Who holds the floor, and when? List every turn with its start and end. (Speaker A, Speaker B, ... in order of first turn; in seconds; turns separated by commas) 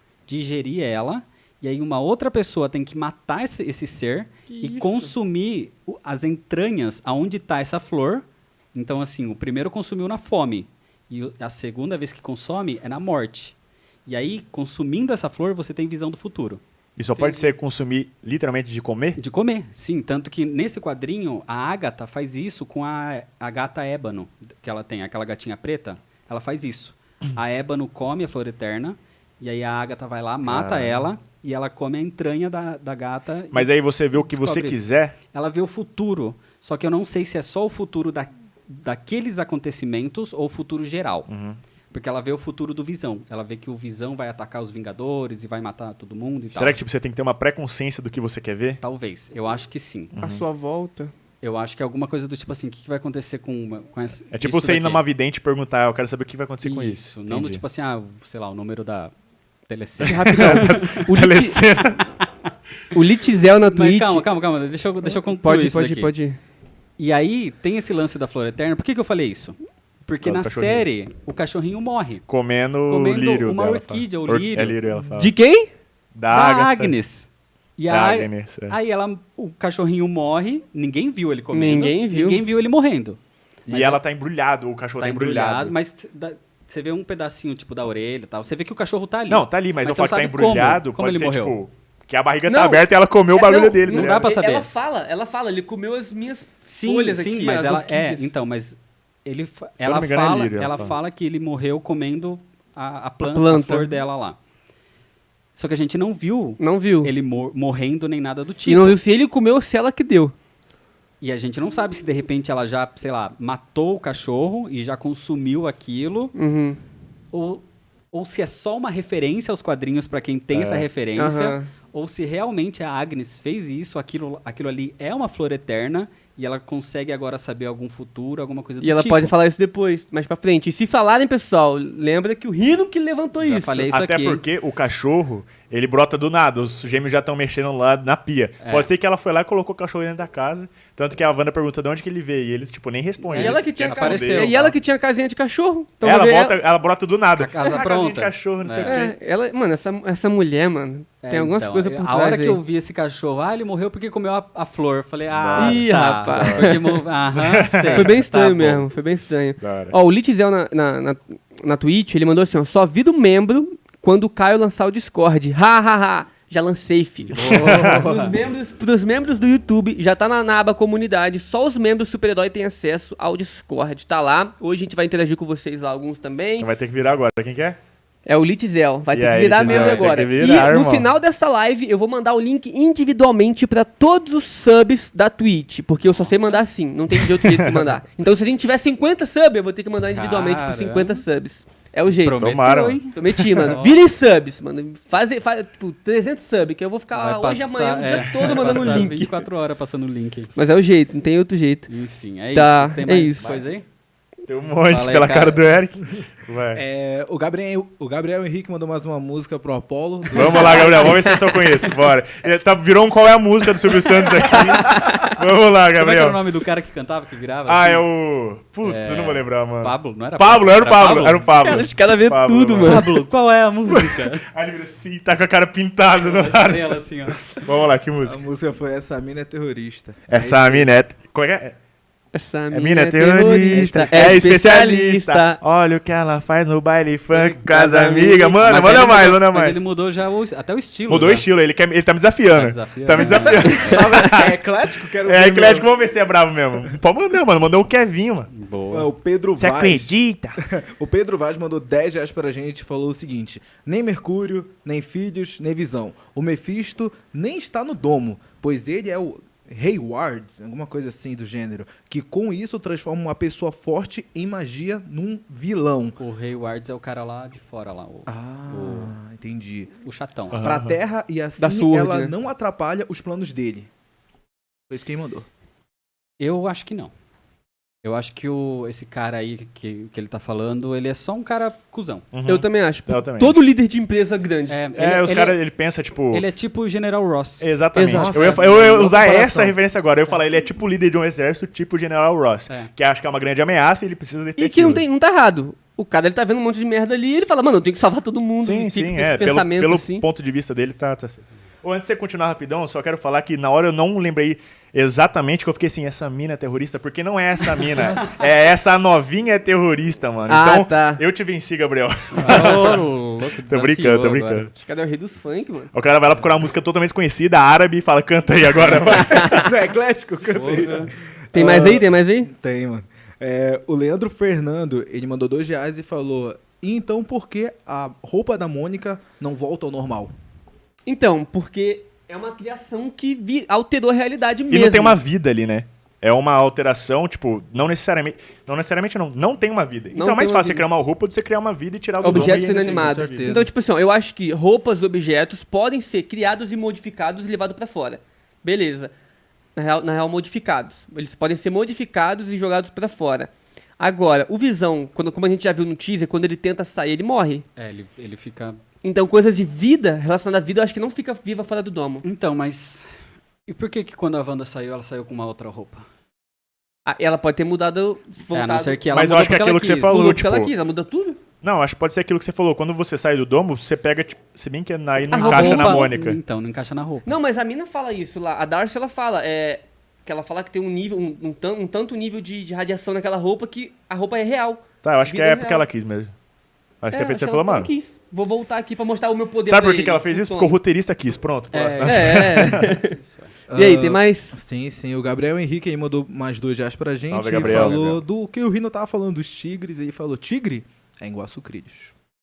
Speaker A: 0.3-16.6, Speaker B: 4.5-5.1, Speaker C: 17.0-19.2, Speaker B: 17.2-17.5, Speaker A: 19.2-41.3, Speaker C: 30.4-31.1, Speaker C: 33.5-35.1, Speaker C: 41.3-41.6, Speaker A: 41.9-46.8, Speaker C: 46.5-48.8, Speaker A: 48.8-50.1, Speaker C: 50.1-50.4, Speaker B: 50.2-51.1, Speaker A: 51.4-55.0, Speaker C: 54.3-57.6, Speaker A: 56.6-59.1, Speaker A: 59.7-61.0, Speaker B: 60.0-61.6, Speaker C: 60.2-62.1, Speaker B: 62.9-64.3, Speaker A: 63.7-66.1, Speaker B: 65.2-66.4, Speaker A: 67.0-72.2, Speaker C: 70.2-70.9, Speaker C: 72.3-75.3, Speaker A: 72.9-74.8, Speaker B: 75.1-75.7, Speaker C: 76.1-76.9, Speaker A: 76.3-84.0, Speaker C: 77.9-78.8, Speaker B: 81.5-82.4, Speaker C: 83.7-85.7, Speaker A: 85.0-91.6, Speaker C: 89.3-94.2, Speaker B: 92.5-98.3, Speaker A: 93.9-94.7, Speaker A: 96.7-104.4, Speaker C: 99.8-101.0, Speaker B: 103.2-103.9, Speaker A: 105.5-109.0, Speaker B: 106.6-107.1, Speaker B: 108.7-110.3, Speaker A: 111.2-116.3, Speaker B: 116.3-116.8, Speaker A: 117.3-129.3, Speaker C: 120.5-120.9, Speaker B: 121.2-121.7, Speaker B: 128.8-133.9, Speaker A: 133.4-134.4, Speaker C: 133.9-144.5, Speaker A: 138.6-138.9, Speaker A: 143.2-144.8, Speaker B: 143.3-146.6, Speaker C: 146.0-149.1, Speaker A: 147.4-149.1, Speaker B: 148.8-152.6, Speaker A: 151.2-158.8, Speaker C: 155.3-156.8, Speaker B: 155.6-157.0, Speaker C: 157.3-158.2, Speaker B: 157.9-176.7, Speaker C: 159.6-159.9, Speaker A: 167.3-168.4, Speaker C: 167.3-168.0, Speaker C: 176.6-177.8, Speaker B: 178.2-199.4, Speaker C: 179.1-181.1, Speaker A: 179.6-180.2, Speaker A: 186.1-186.6, Speaker C: 187.4-187.7, Speaker A: 190.1-191.2, Speaker A: 192.1-194.0, Speaker C: 192.4-193.7, Speaker A: 197.1-200.5, Speaker B: 200.6-201.9, Speaker A: 201.9-203.8, Speaker B: 202.5-203.6, Speaker C: 204.5-206.8, Speaker A: 204.9-205.6, Speaker D: 206.7-211.2, Speaker C: 210.3-216.4, Speaker B: 210.3-211.8, Speaker B: 214.5-215.3, Speaker A: 216.0-218.1, Speaker C: 217.7-223.1, Speaker A: 218.8-221.5, Speaker B: 221.5-223.1, Speaker A: 222.8-224.4, Speaker C: 223.9-228.4, Speaker A: 226.2-227.4, Speaker D: 228.2-230.9, Speaker C: 230.3-231.8, Speaker B: 232.3-235.6, Speaker C: 232.7-239.8, Speaker D: 233.7-234.4, Speaker B: 237.3-239.3, Speaker A: 238.6-241.5, Speaker C: 241.1-244.5, Speaker A: 242.5-244.1, Speaker D: 243.2-245.9, Speaker B: 243.9-244.3, Speaker C: 245.2-248.5, Speaker A: 248.5-249.1, Speaker D: 248.9-250.1, Speaker C: 249.6-250.6, Speaker D: 250.6-266.2, Speaker A: 266.2-269.1, Speaker D: 268.3-269.9, Speaker A: 270.0-270.7, Speaker C: 270.5-271.0, Speaker D: 270.6-273.9, Speaker B: 271.6-272.3, Speaker D: 274.9-275.4, Speaker A: 276.4-277.1, Speaker A: 278.0-282.2, Speaker C: 282.3-283.6, Speaker B: 282.4-284.8, Speaker A: 284.7-285.6, Speaker C: 284.9-286.4, Speaker A: 286.3-287.6, Speaker C: 287.6-295.0, Speaker B: 287.9-288.5, Speaker D: 288.1-289.8, Speaker A: 288.3-288.9, Speaker B: 294.6-300.2, Speaker C: 298.6-313.1, Speaker B: 310.5-311.2, Speaker A: 312.3-314.7, Speaker C: 313.7-314.7, Speaker B: 314.8-315.9, Speaker C: 315.9-319.7, Speaker D: 319.1-330.3, Speaker B: 319.1-319.6, Speaker A: 320.5-321.1, Speaker B: 321.5-322.5, Speaker B: 331.1-335.2, Speaker C: 334.7-343.5, Speaker B: 340.1-340.8, Speaker B: 342.2-349.1, Speaker D: 342.3-343.7, Speaker B: 349.8-357.6, Speaker A: 357.8-358.8, Speaker B: 359.0-362.2, Speaker A: 362.2-363.1, Speaker A: 363.7-366.1, Speaker B: 367.1-371.4, Speaker A: 368.5-370.3, Speaker C: 369.1-370.7, Speaker C: 371.6-376.4, Speaker B: 375.3-376.1, Speaker A: 375.3-377.3, Speaker B: 377.2-385.8, Speaker C: 385.0-386.3, Speaker C: 387.0-387.9, Speaker B: 387.1-390.8, Speaker C: 389.6-392.9, Speaker A: 391.7-393.5, Speaker B: 392.0-393.2, Speaker D: 393.7-402.1, Speaker B: 393.7-394.5, Speaker C: 397.3-398.2, Speaker A: 397.6-398.2